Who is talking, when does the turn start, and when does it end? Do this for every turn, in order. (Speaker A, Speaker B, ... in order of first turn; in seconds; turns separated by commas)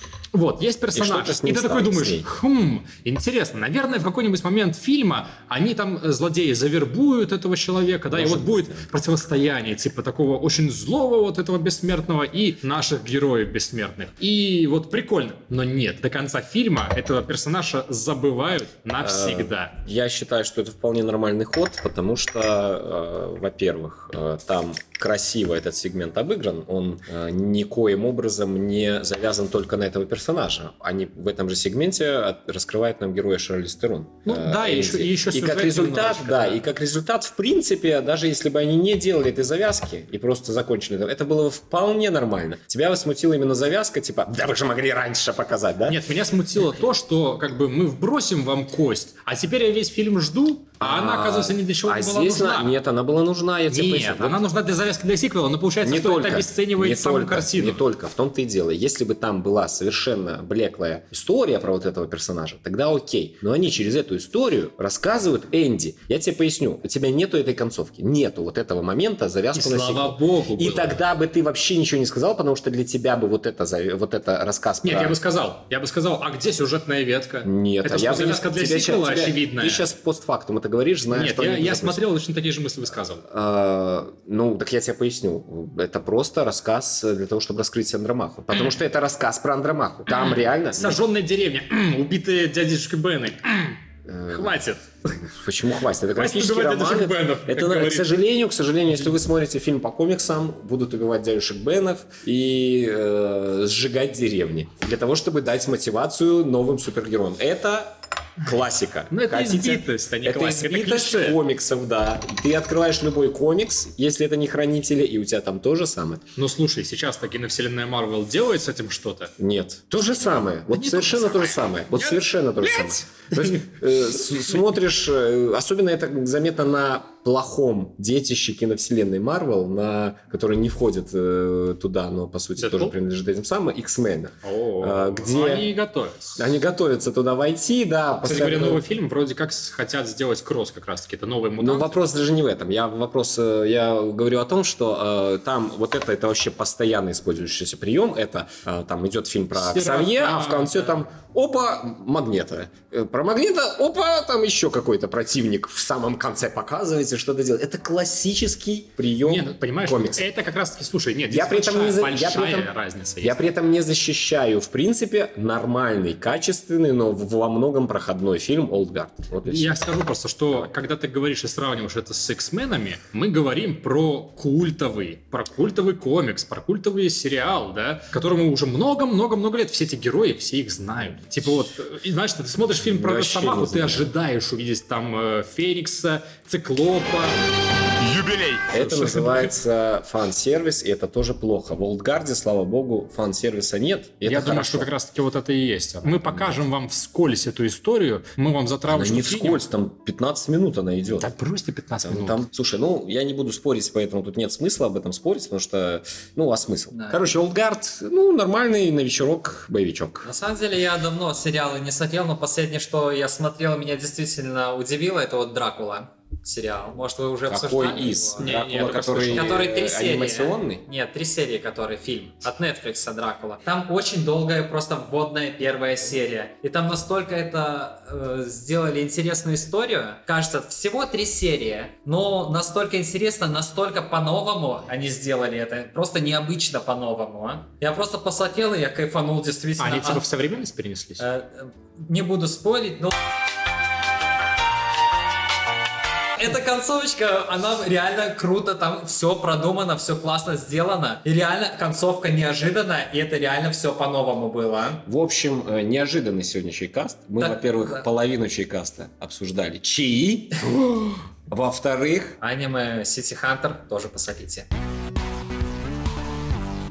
Speaker A: 0.3-19.8, Speaker B: 0.9-2.3, Speaker B: 8.1-8.9, Speaker B: 19.0-46.0, Speaker A: 34.2-36.6, Speaker A: 45.9-52.7, Speaker B: 50.8-54.4, Speaker A: 53.7-57.8, Speaker B: 55.8-75.2, Speaker A: 69.5-71.0, Speaker A: 74.8-79.9, Speaker B: 77.4-82.1, Speaker A: 81.1-83.2, Speaker B: 83.2-91.0, Speaker A: 90.2-95.2, Speaker B: 94.1-94.6, Speaker B: 95.2-116.2, Speaker A: 96.1-98.1, Speaker A: 109.1-111.4, Speaker A: 116.4-119.3, Speaker B: 119.4-135.7, Speaker A: 120.7-123.6, Speaker A: 132.6-132.9, Speaker A: 134.4-136.5, Speaker B: 136.4-138.8, Speaker A: 138.2-142.0, Speaker B: 141.6-160.3, Speaker A: 149.6-151.1, Speaker A: 159.2-163.4, Speaker B: 161.3-169.8, Speaker A: 169.4-187.4, Speaker B: 182.8-184.1, Speaker A: 188.0-189.5, Speaker B: 188.7-194.9, Speaker A: 194.2-199.6, Speaker B: 196.1-196.6, Speaker B: 198.9-201.3, Speaker A: 201.2-202.5, Speaker B: 202.0-210.3, Speaker C: 206.9-207.3, Speaker C: 210.2-240.2, Speaker B: 217.5-220.8, Speaker A: 218.4-219.6, Speaker A: 239.8-241.3, Speaker C: 241.2-243.1, Speaker C: 246.4-255.1, Speaker B: 255.1-262.4, Speaker C: 257.4-258.1, Speaker C: 262.4-264.7